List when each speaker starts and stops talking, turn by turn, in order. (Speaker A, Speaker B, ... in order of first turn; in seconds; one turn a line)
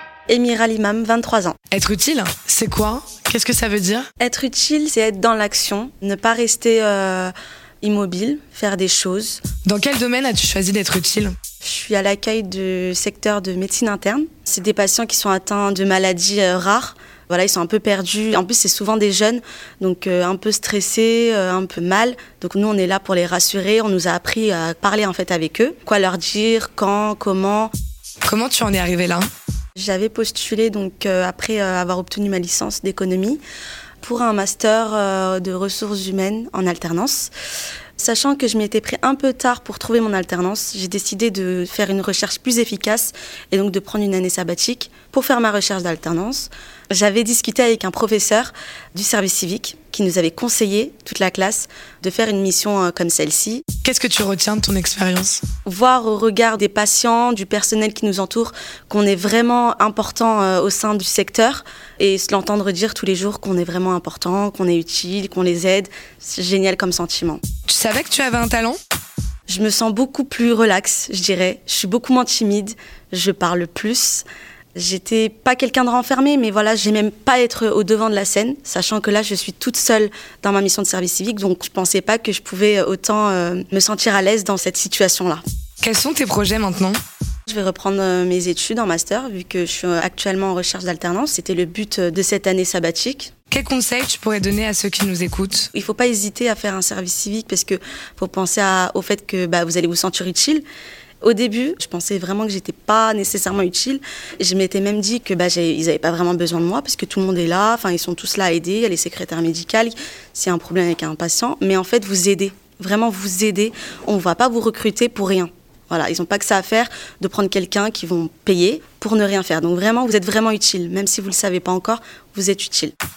Speaker A: 0.3-1.6
Speaker B: 1.7-4.1
Speaker A: 4.2-9.4
Speaker B: 9.6-11.3
Speaker A: 11.6-27.7
Speaker B: 28.2-29.3
Speaker A: 29.8-33.4
Speaker A: 34.0-37.3
Speaker A: 38.0-53.6
Speaker B: 53.8-55.4
Speaker A: 55.7-67.4
Speaker B: 67.7-68.8
Speaker A: 69.5-74.2
Speaker A: 74.8-85.4
Speaker B: 85.8-87.0
Speaker A: 87.5-93.3
Speaker B: 93.5-95.7
Speaker A: 95.7-100.6
Speaker A: 101.2-122.9